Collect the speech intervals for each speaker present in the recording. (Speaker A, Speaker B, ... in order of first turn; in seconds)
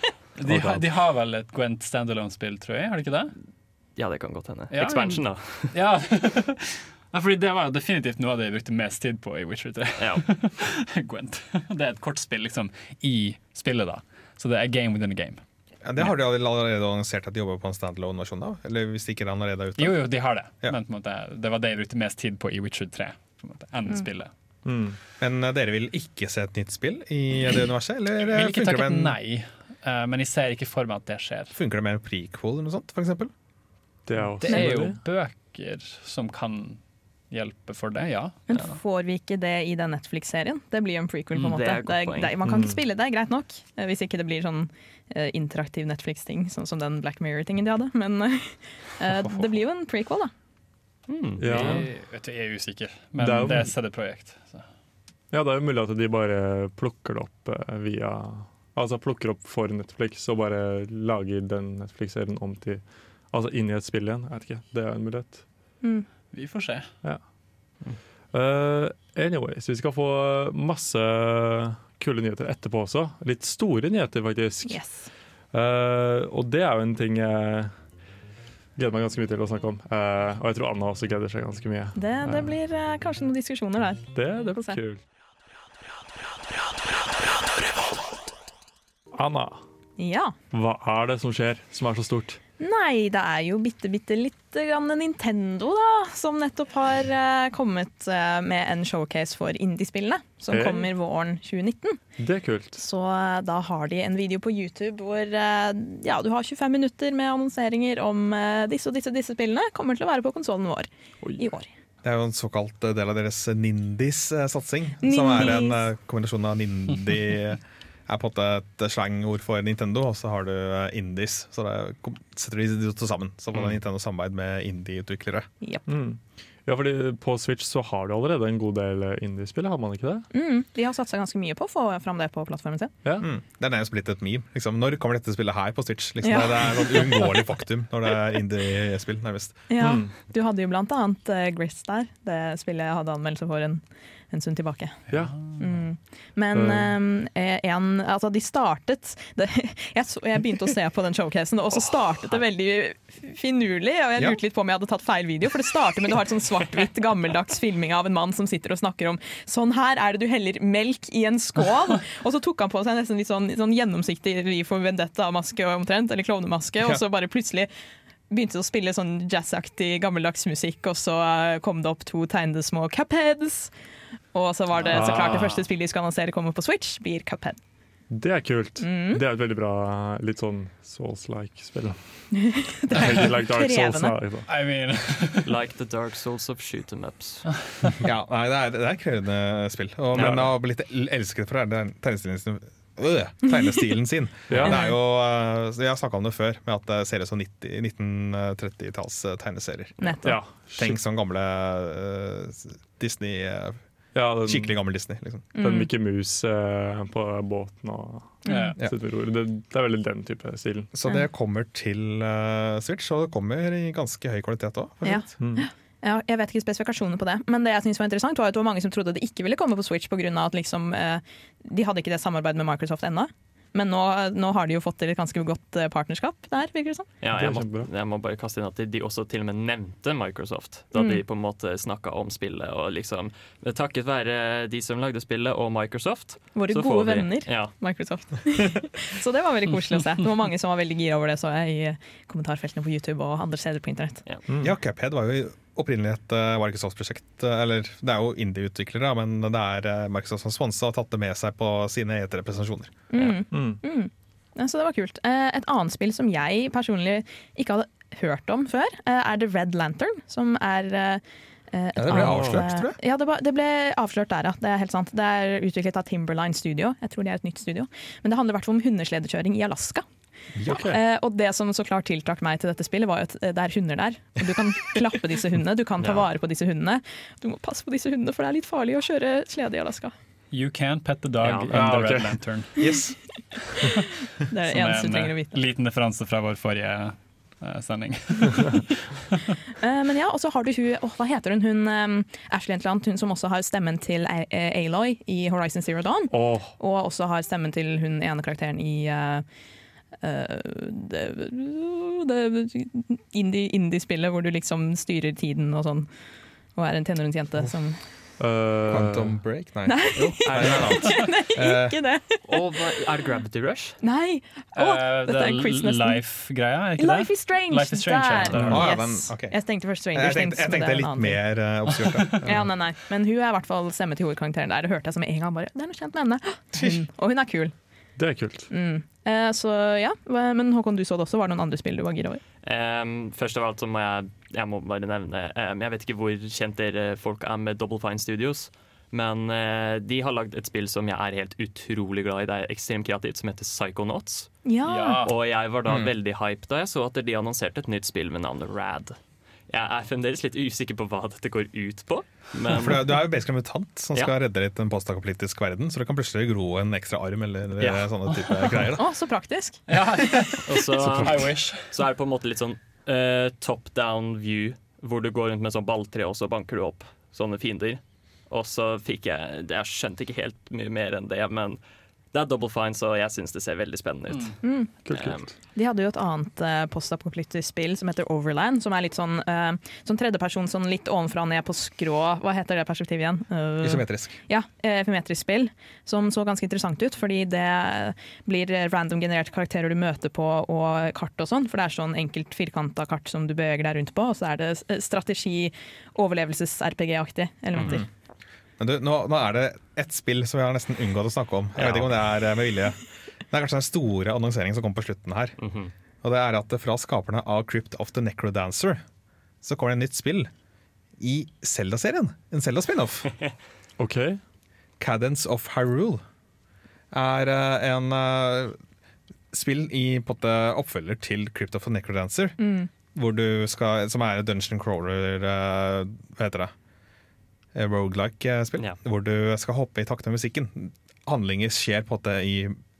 Speaker A: 0.4-3.3, 4.7-15.4, 19.8-24.3, 28.2-31.6, 34.2-38.8, 49.1-49.5, 51.4-54.6, 66.3-66.9, 145.1-145.6, 174.8-175.4, 184.4-185.5, 208.5-208.8, 280.5-282.9, 284.6-289.1, 314.7-318.8, 344.8-345.4, 358.3-358.8, 359.9-361.9, 374.3-374.6
Speaker B: 0.5-0.8, 24.6-25.0, 34.0-35.0, 42.4-42.8, 51.4-51.9, 53.2-53.7, 55.3-65.4, 68.3-74.8, 75.5-77.8, 78.8-82.5, 84.1-85.0, 89.1-89.6, 90.5-92.4, 100.5-100.9, 102.2-102.8, 125.9-130.3, 139.8-140.1, 145.1-145.4, 146.5-146.9, 174.9-175.5, 178.1-182.3, 182.9-184.5, 190.1-190.4, 194.5-194.8, 200.2-201.0, 204.1-204.8, 205.6-210.9, 215.4-215.7, 227.3-227.9, 244.5-244.7, 253.5-253.8, 262.1-262.6, 270.6-271.0, 281.7-282.4, 296.3-296.7, 308.4-309.4, 318.5-318.8, 328.2-328.7, 361.0-361.5, 375.0-375.5, 414.0-414.4
Speaker C: 4.0-5.7, 10.0-10.2, 41.5-42.3, 51.1-51.8, 185.4-187.5, 190.1-190.4, 227.2-237.7, 281.4-281.8, 310.2-311.0, 312.5-314.0, 332.6-344.6, 345.2-349.2, 349.7-353.2, 360.6-371.8, 372.3-375.5, 401.8-402.1, 405.6-405.9
Speaker D: 15.8-20.8, 25.2-29.1, 31.5-33.3, 112.0-125.5, 133.2-139.6, 188.0-203.8, 204.4-205.5, 210.9-215.3, 244.6-253.0, 261.9-263.0, 270.6-270.9, 282.8-283.2, 308.9-312.0, 318.6-319.6, 320.1-322.7, 326.7-327.0, 345.9-346.1, 352.7-359.0, 383.8-384.4, 398.8-405.6, 406.2-409.0, 409.6-410.5, 411.2-413.3, 415.0-416.2, 417.1-418.8, 419.5-422.6, 423.1-426.7, 427.7-432.8
Speaker E: 38.5-50.3, 65.8-66.1, 74.6-75.1, 81.9-84.8, 90.0-90.3, 92.6-102.0, 102.8-111.7, 115.0-115.8, 125.6-125.9, 130.3-132.9, 136.2-137.3, 139.7-167.7, 168.3-173.7, 174.3-177.6, 178.8-179.2, 182.3-184.1, 194.6-195.0, 200.0-200.4, 205.5-205.9, 208.4-208.7, 215.0-227.1, 230.9-231.2, 236.5-244.2, 253.1-270.0, 270.7-280.1, 284.5-285.5, 289.8-299.4, 300.2-306.1, 306.7-308.0, 309.9-312.4, 314.0-316.2, 316.9-321.4, 322.4-327.7, 328.7-332.4, 344.6-345.2, 359.0-359.8, 374.6-374.9, 375.7-398.1, 422.6-422.9